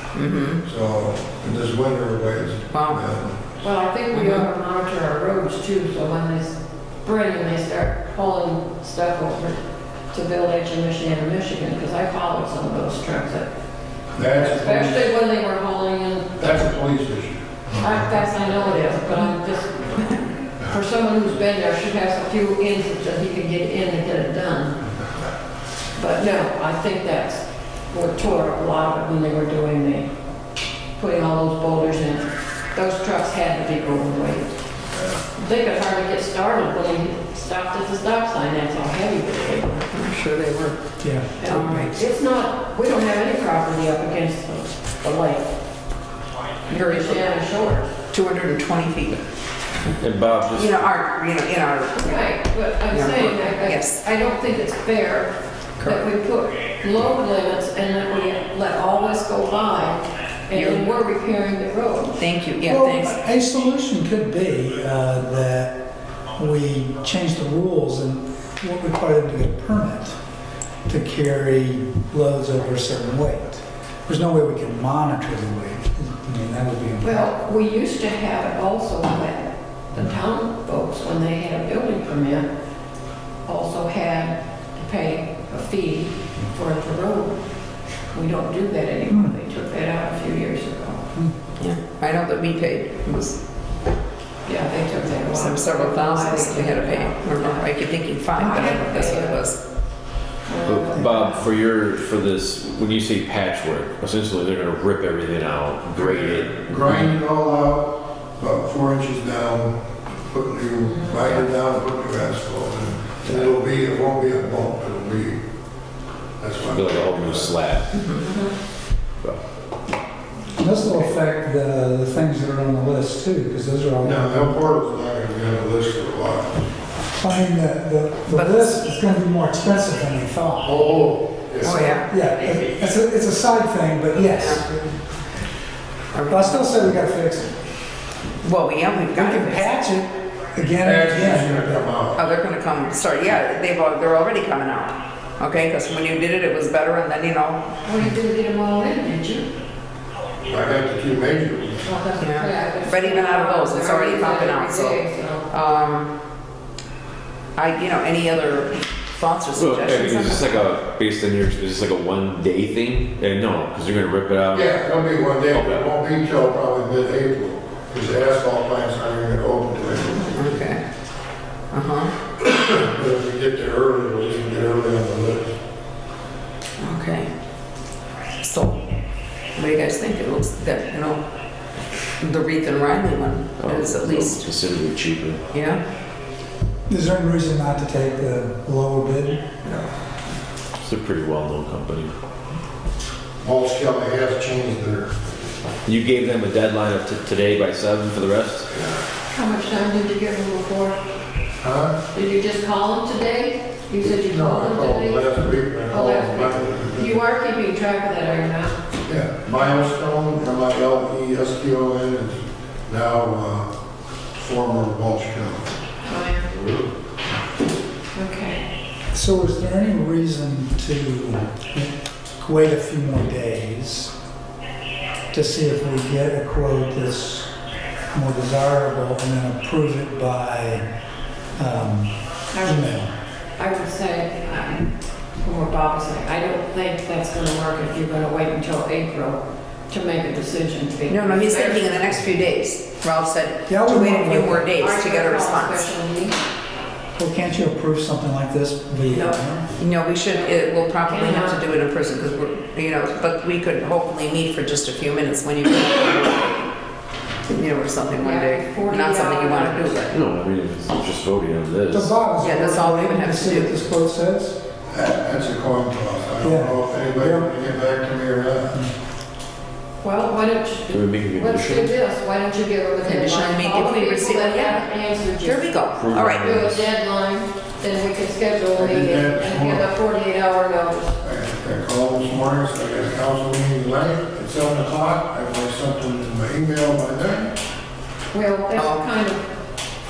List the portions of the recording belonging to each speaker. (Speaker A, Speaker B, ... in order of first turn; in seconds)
Speaker A: 0.1-0.6, 2.7-3.0, 4.1-4.5, 39.8-40.8, 41.5-41.9, 46.8-47.2, 48.1-49.2, 50.5-52.2, 52.9-54.0, 60.5-60.9, 62.2-63.1, 91.6-93.4, 95.3-99.6, 117.9-118.3, 128.3-128.7, 131.6-132.1, 134.2-134.7, 136.1-136.7, 138.4-139.7, 142.1-147.7, 152.2-155.0, 155.5-156.1, 157.6-160.7, 170.3-170.8, 171.7-172.1, 176.8-177.3, 178.4-178.8, 179.6-181.2, 182.2-184.4, 185.5-185.8, 241.1-245.9, 249.8-256.6, 257.5-260.1, 262.4-263.7, 273.0-274.9, 275.4-276.4, 288.8-289.0
Speaker B: 0.6-3.4, 14.1-15.1, 16.4-18.1, 106.0-115.4, 116.4-117.5, 124.0-126.6, 130.6-132.9, 140.8-142.2, 150.5-151.9, 164.5-170.7, 172.4-175.5, 193.4-195.1, 201.6-202.0, 204.0-207.2, 209.1-213.7, 214.3-215.7, 216.5-216.9, 264.9-268.8, 278.7-279.9, 281.2-287.5
Speaker C: 3.6-9.6, 10.1-13.5, 14.3-16.6, 17.8-24.8, 25.9-30.1, 31.0-34.5, 35.4-39.8, 41.4-45.5, 46.7-47.9, 51.9-62.2, 77.0-82.5, 83.5-87.4, 88.1-91.0, 94.4-99.5, 100.5-101.5, 110.9-111.2, 118.1-118.5, 147.8-149.5, 151.8-155.5, 199.3-201.0, 202.1-208.8, 216.0-216.5, 218.1-218.7, 232.5-232.9, 233.6-242.2, 244.8-246.4, 249.1-249.4, 250.3-251.6, 258.2-260.1, 270.0-281.2, 288.3-289.4
Speaker D: 41.0-42.0, 62.6-65.8, 66.3-70.2, 70.9-77.3, 89.1-89.3, 120.5-124.6, 127.2-130.8, 131.9-134.8, 136.3-137.6, 138.9-141.9, 186.9-189.6, 219.1-224.1, 225.3-227.5, 228.1-230.8, 231.6-233.1, 243.7-244.7, 247.2-249.7, 261.9-264.6, 266.4-267.5
Speaker E: 50.0-50.9, 100.6-106.6, 116.7-117.9, 159.5-164.7, 165.5-165.8, 183.6-185.4, 190.8-192.1, 195.8-198.7, 260.1-262.1, 270.9-271.9, 275.9-276.9